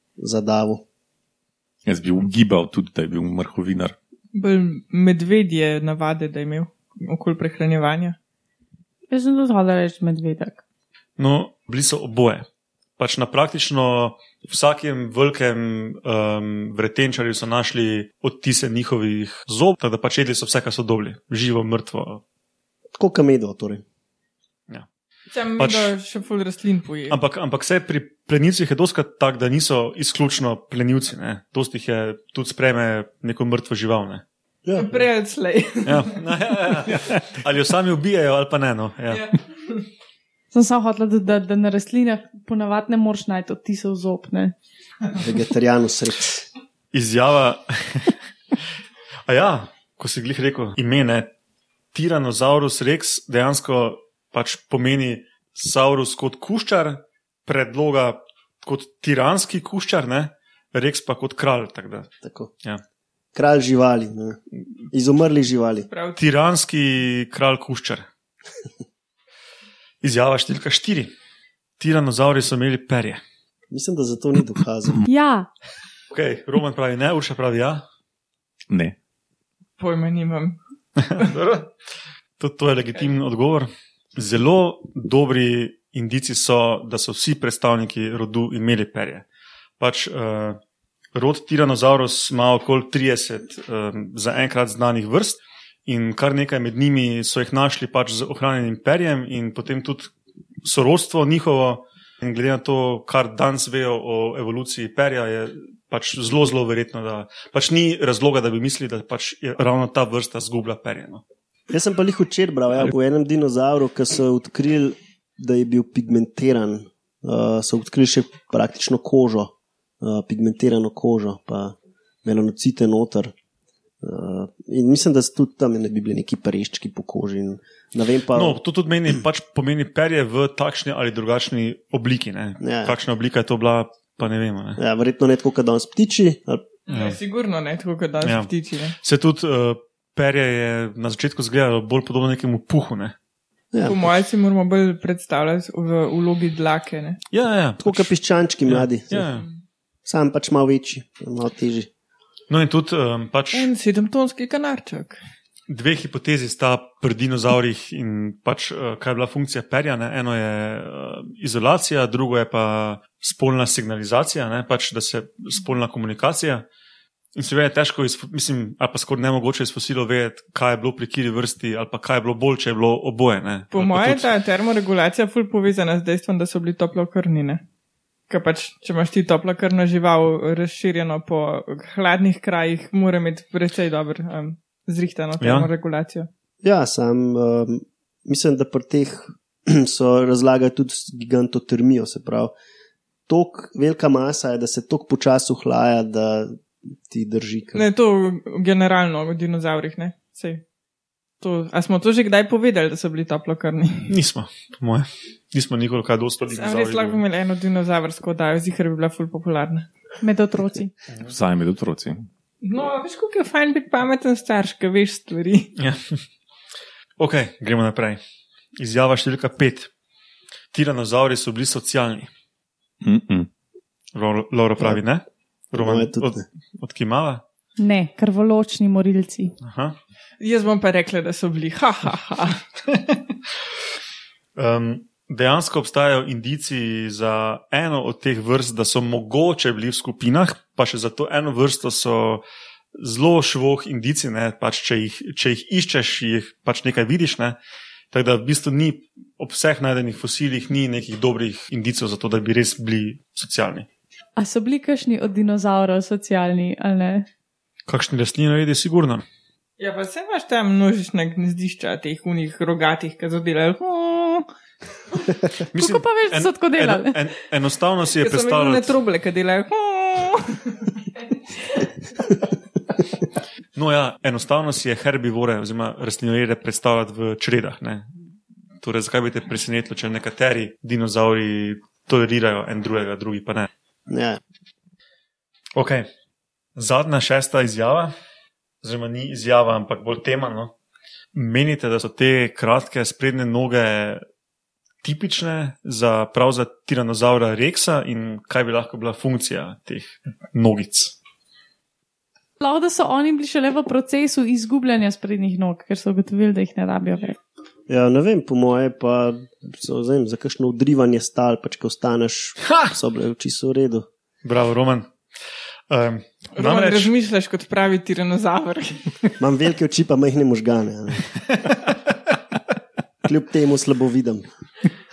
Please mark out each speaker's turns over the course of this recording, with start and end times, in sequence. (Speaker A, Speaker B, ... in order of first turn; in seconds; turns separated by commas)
Speaker A: 0.2-0.8, Speaker B: 1.9-3.9, Speaker C: 4.3-8.2, Speaker D: 9.1-10.6, Speaker E: 11.2-12.4, Speaker E: 13.0-22.2, Speaker A: 22.9-23.8, Speaker C: 25.3-27.2, Speaker E: 25.6-25.9, Speaker E: 27.1-34.2, Speaker A: 34.6-35.0, Speaker C: 34.8-36.2, Speaker E: 35.8-39.3, Speaker C: 39.1-39.8, Speaker D: 40.5-44.5, Speaker A: 45.1-46.5, Speaker E: 46.9-48.1, Speaker E: 49.3-51.3, Speaker E: 51.9-62.1, Speaker A: 62.2-62.5, Speaker A: 63.3-64.4, Speaker A: 64.9-65.9, Speaker C: 65.9-66.2, Speaker E: 66.2-68.1, Speaker E: 70.0-71.1, Speaker E: 71.8-73.2, Speaker A: 73.7-75.0, Speaker D: 75.0-75.5, Speaker E: 76.1-77.8, Speaker B: 78.7-78.9, Speaker C: 79.8-80.6, Speaker E: 81.0-81.7, Speaker E: 82.4-89.2, Speaker E: 89.8-90.6, Speaker E: 91.1-100.1, Speaker E: 100.6-111.2, Speaker A: 111.7-123.3, Speaker A: 124.0-128.6, Speaker E: 128.3-134.8, Speaker A: 132.6-132.9, Speaker A: 134.8-136.7, Speaker C: 136.9-139.0, Speaker E: 136.9-137.2, Speaker E: 138.2-143.1, Speaker A: 143.7-144.0, Speaker C: 143.8-147.2, Speaker E: 147.3-149.4, Speaker A: 147.8-149.3, Speaker A: 150.0-151.9, Speaker E: 152.5-153.7, Speaker C: 153.5-155.2, Speaker E: 155.7-166.6, Speaker E: 167.3-174.3, Speaker C: 173.7-177.6, Speaker C: 178.3-186.3, Speaker E: 185.4-185.7, Speaker A: 186.6-192.5, Speaker A: 193.3-197.8, Speaker C: 197.7-200.6, Speaker C: 201.4-204.1, Speaker E: 204.1-207.2, Speaker C: 206.6-209.9, Speaker D: 210.2-210.9, Speaker B: 211.2-212.3, Speaker C: 212.6-215.7, Speaker E: 215.8-216.2, Speaker E: 217.2-218.2, Speaker E: 218.8-219.9, Speaker E: 220.7-222.3, Speaker B: 223.0-223.5, Speaker E: 224.1-227.4, Speaker A: 225.7-226.4, Speaker D: 227.8-229.5, Speaker E: 229.6-229.9, Speaker C: 230.4-232.6, Speaker E: 234.6-242.4, Speaker E: 242.9-247.6, Speaker E: 248.1-253.8, Speaker D: 254.3-257.3, Speaker E: 257.9-259.2, Speaker C: 259.8-264.4, Speaker E: 265.7-268.9, Speaker D: 265.7-267.2, Speaker C: 268.2-270.8, Speaker E: 273.7-278.1, Speaker E: 278.8-283.7, Speaker A: 284.1-284.4, Speaker E: 285.8-286.1, Speaker E: 286.8-288.1, Speaker E: 288.8-290.7, Speaker E: 291.3-294.2, Speaker E: 295.0-301.1, Speaker D: 302.6-307.4, Speaker A: 307.9-314.1, Speaker E: 314.4-315.1, Speaker E: 315.9-317.1, Speaker C: 316.6-319.3, Speaker A: 319.4-321.3, Speaker E: 321.6-321.9, Speaker A: 323.2-324.4